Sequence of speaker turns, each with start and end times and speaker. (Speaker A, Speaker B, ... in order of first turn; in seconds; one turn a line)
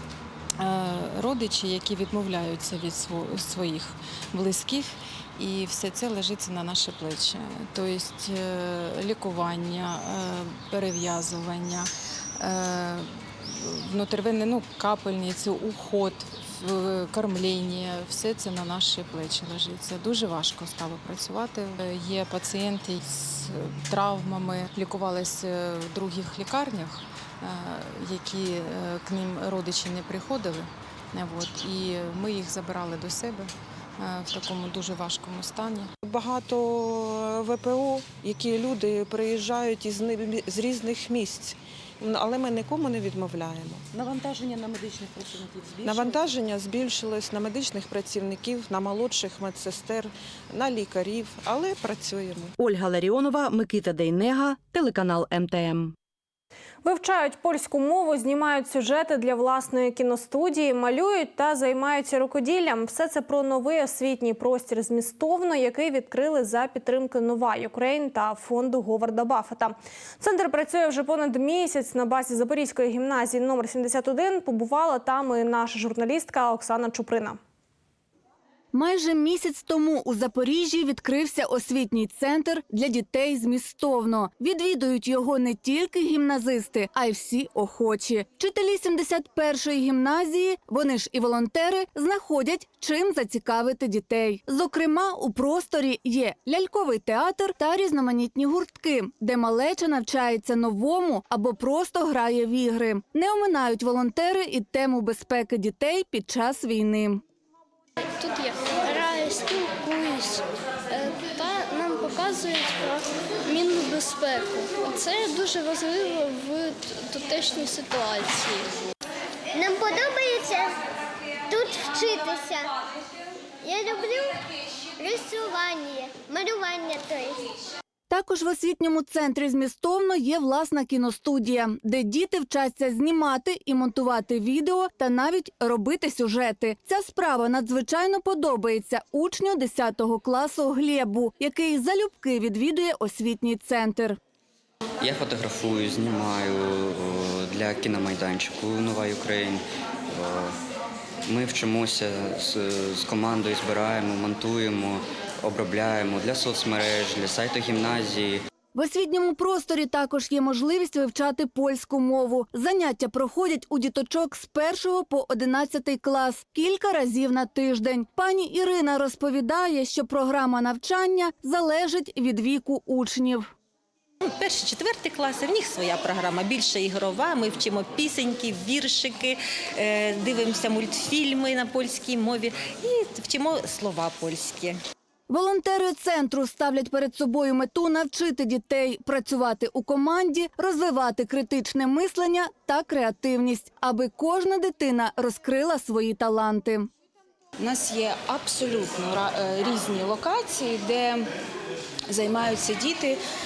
Speaker A: 0.6-35.9
Speaker B: 36.0-52.5
Speaker C: 52.6-55.9
Speaker D: 56.8-77.4
Speaker E: 78.7-107.2
Speaker F: 108.2-118.7
Speaker G: 119.5-120.8
Speaker G: 121.5-122.7
Speaker G: 123.6-124.4
Speaker G: 125.0-127.5
Speaker E: 128.1-144.2
Speaker H: 145.0-150.6
Speaker H: 151.2-158.4
Speaker E: 158.7-173.5
Speaker I: 174.2-184.8
Speaker E: 185.3-196.9
Speaker J: 197.6-201.3
Speaker J: 202.1-203.2